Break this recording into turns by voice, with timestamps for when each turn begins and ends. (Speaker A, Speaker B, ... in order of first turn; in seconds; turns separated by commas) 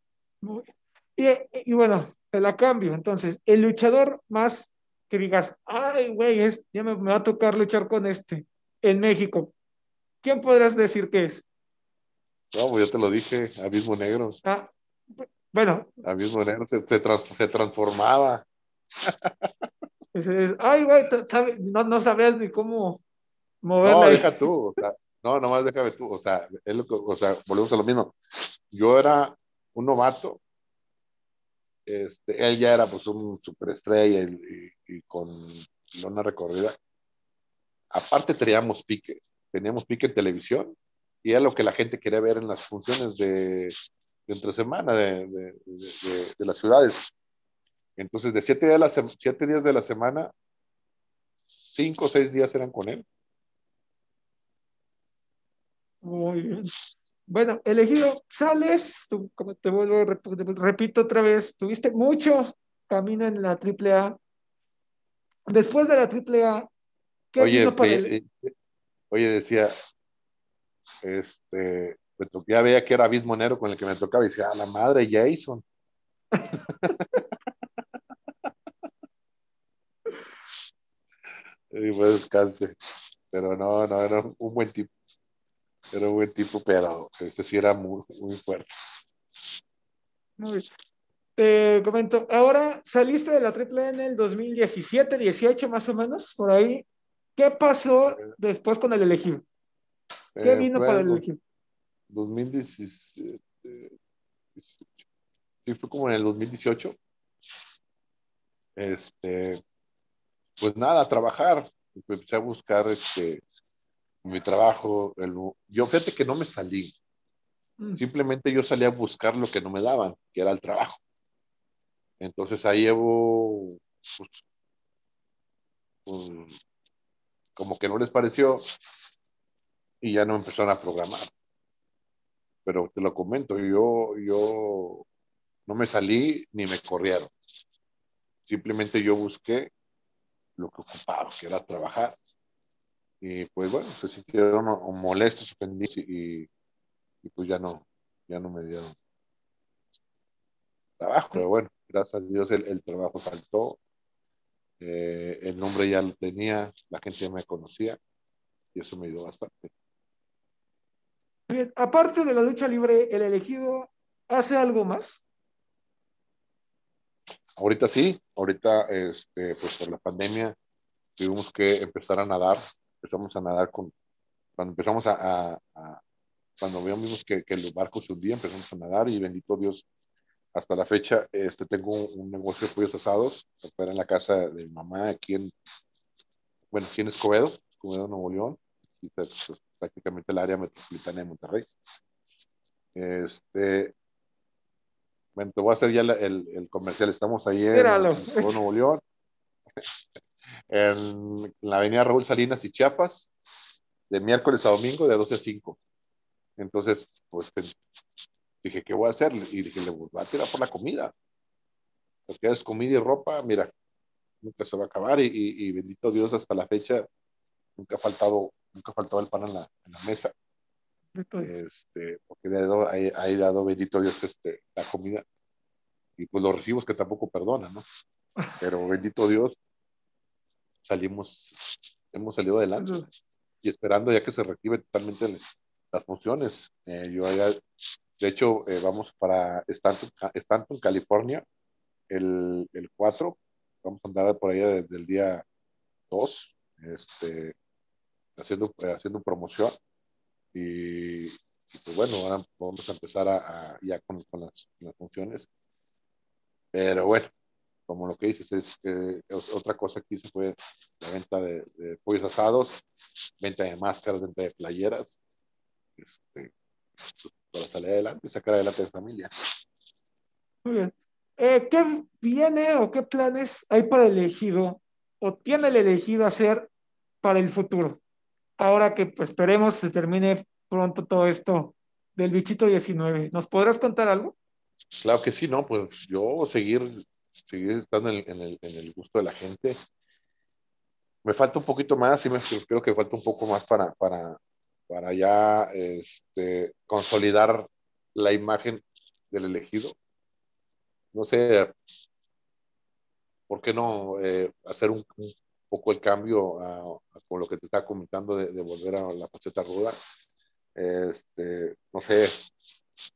Speaker A: 0.4-9.5, Speaker A: 10.2-11.4, Speaker B: 12.5-14.4, Speaker A: 14.4-16.1, Speaker B: 16.0-18.5, Speaker B: 19.0-19.5, Speaker A: 20.1-23.0, Speaker A: 23.6-24.5, Speaker B: 23.8-28.2, Speaker B: 28.7-30.4, Speaker B: 31.9-36.8, Speaker B: 37.9-43.7, Speaker B: 44.3-47.1, Speaker B: 48.0-50.3, Speaker B: 51.5-53.0, Speaker A: 56.0-56.7, Speaker A: 57.3-64.2, Speaker A: 65.5-66.7, Speaker A: 67.3-68.1, Speaker B: 67.4-68.5, Speaker B: 69.1-69.7, Speaker B: 71.0-75.6, Speaker B: 76.5-77.2, Speaker B: 81.7-82.7, Speaker B: 83.3-84.9, Speaker B: 85.9-88.7, Speaker A: 90.4-90.7, Speaker A: 91.4-99.4, Speaker B: 100.4-101.2, Speaker A: 100.4-101.4, Speaker B: 102.1-103.9, Speaker B: 104.6-105.0, Speaker B: 105.7-107.0, Speaker B: 108.8-109.6, Speaker B: 110.6-113.4, Speaker B: 114.2-117.0, Speaker B: 118.0-121.0, Speaker B: 122.2-124.4, Speaker B: 126.1-126.6, Speaker B: 127.6-128.6, Speaker B: 130.0-131.2, Speaker B: 132.7-135.1, Speaker B: 135.7-137.3, Speaker B: 138.5-139.7, Speaker B: 140.6-142.2, Speaker B: 143.2-146.5, Speaker B: 147.2-149.0, Speaker B: 151.0-153.8, Speaker B: 154.8-158.0, Speaker B: 158.8-159.7, Speaker A: 161.5-165.2, Speaker B: 167.6-170.6, Speaker B: 171.2-173.9, Speaker B: 174.6-176.0, Speaker B: 176.6-179.9, Speaker B: 180.5-185.5, Speaker B: 186.7-191.7, Speaker B: 192.9-193.9, Speaker B: 195.4-199.0, Speaker A: 197.7-198.7, Speaker B: 200.7-203.3, Speaker B: 204.1-205.8, Speaker B: 206.6-207.7, Speaker B: 208.6-211.1, Speaker B: 212.3-213.7, Speaker B: 214.4-217.1, Speaker B: 217.8-220.3, Speaker A: 221.2-221.5, Speaker B: 221.4-225.2, Speaker B: 226.2-227.8, Speaker B: 228.6-229.6, Speaker B: 230.8-233.0, Speaker A: 232.8-233.1, Speaker B: 233.6-237.6, Speaker B: 238.2-241.4, Speaker B: 242.1-245.4, Speaker B: 246.1-247.6, Speaker B: 248.4-249.8, Speaker B: 250.5-255.5, Speaker B: 256.7-257.3, Speaker B: 257.9-262.8, Speaker B: 263.4-265.2, Speaker B: 266.0-266.5, Speaker B: 267.1-269.3, Speaker A: 270.6-276.7, Speaker A: 277.2-278.0, Speaker A: 278.6-284.4, Speaker B: 285.0-289.8, Speaker B: 291.2-300.0, Speaker B: 301.1-301.7, Speaker B: 303.5-310.0, Speaker B: 310.8-312.4